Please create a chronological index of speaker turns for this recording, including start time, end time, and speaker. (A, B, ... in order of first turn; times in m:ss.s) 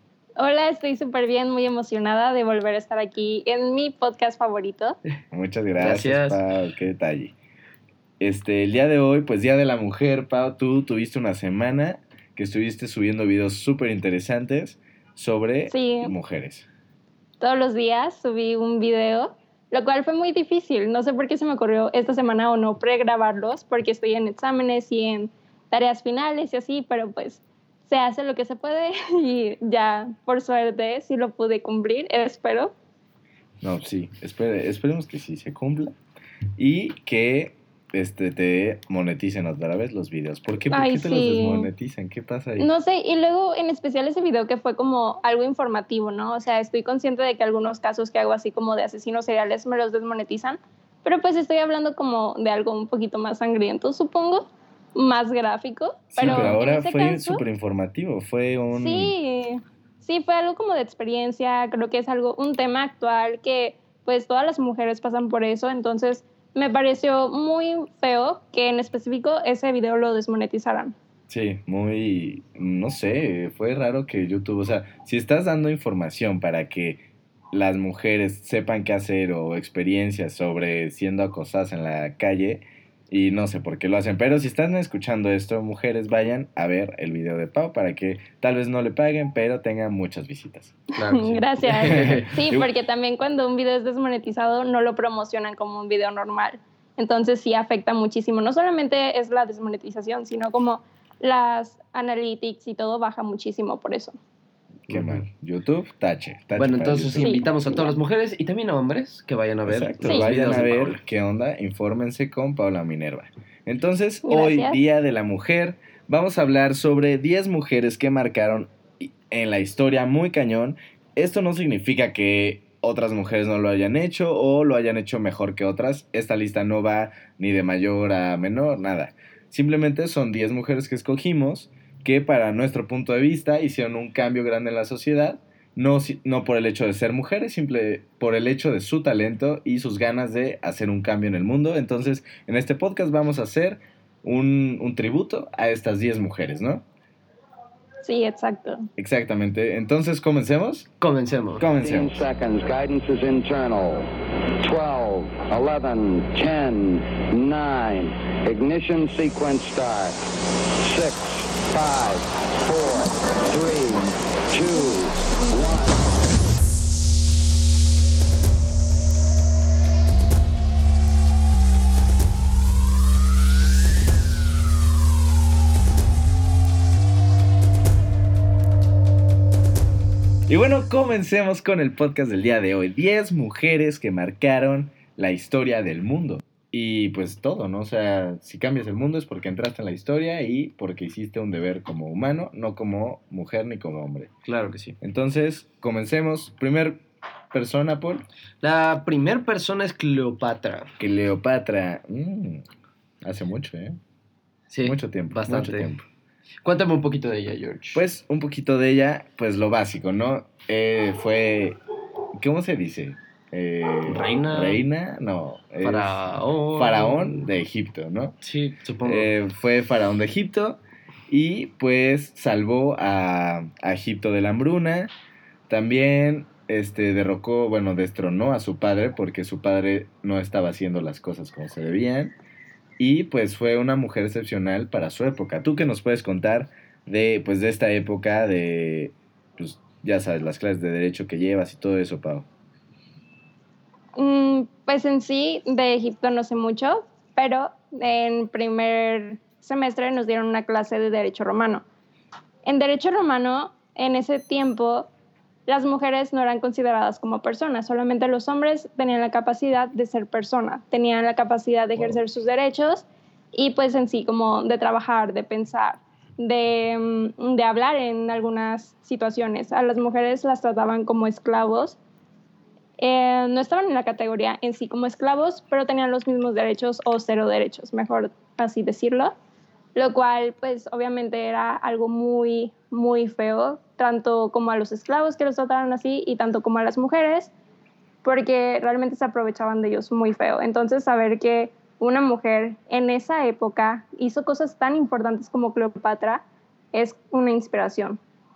0:00.4-0:05.0 A
0:05.3-0:07.3 B
0:05.8-0:06.4 C
0:08.2-0:16.7 B
0:15.7-0:16.1 A
0:17.4-0:32.7 A
0:33.6-0:35.9 B
0:36.6-0:42.7 B
0:40.7-0:41.7 A
0:42.6-0:57.4 A
0:56.1-0:59.1 B
0:56.2-0:56.6 C
0:58.7-1:10.9 A
1:11.3-1:30.8 B
1:31.0-1:32.3 C
1:31.0-1:44.2 A
1:31.8-1:32.7 B
1:44.9-1:47.6 B
1:44.9-1:45.2 C
1:46.6-1:51.0 C
1:47.2-1:47.5 A
1:49.7-2:26.8 B
1:50.0-1:50.3 A
1:54.2-1:54.8 A
2:28.0-2:28.9 A
2:29.0-2:30.9 B
2:31.0-2:31.6 C
2:31.6-2:32.2 B
2:31.8-2:40.2 D
2:40.8-2:46.1 D
3:00.5-3:14.3 B
3:14.4-3:15.0 C
3:15.0-3:18.2 B
3:18.6-3:20.9 C
3:21.0-3:22.6 B
3:23.2-3:24.0 B
3:24.7-3:25.9 C
3:24.8-3:26.0 B
3:26.6-3:28.0 C
3:27.9-3:31.8 B
3:32.4-3:38.4 B
3:34.1-3:34.8 C
3:35.8-3:37.5 C
3:38.4-3:39.3 C
3:39.0-3:45.1 B
3:45.7-3:52.3 B
3:53.0-4:02.4 B
4:04.2-4:11.8 A
4:12.6-4:15.1 A
4:15.7-4:32.0 A
4:33.0-4:39.3 A
4:39.9-4:47.5 A
4:48.2-4:58.2 A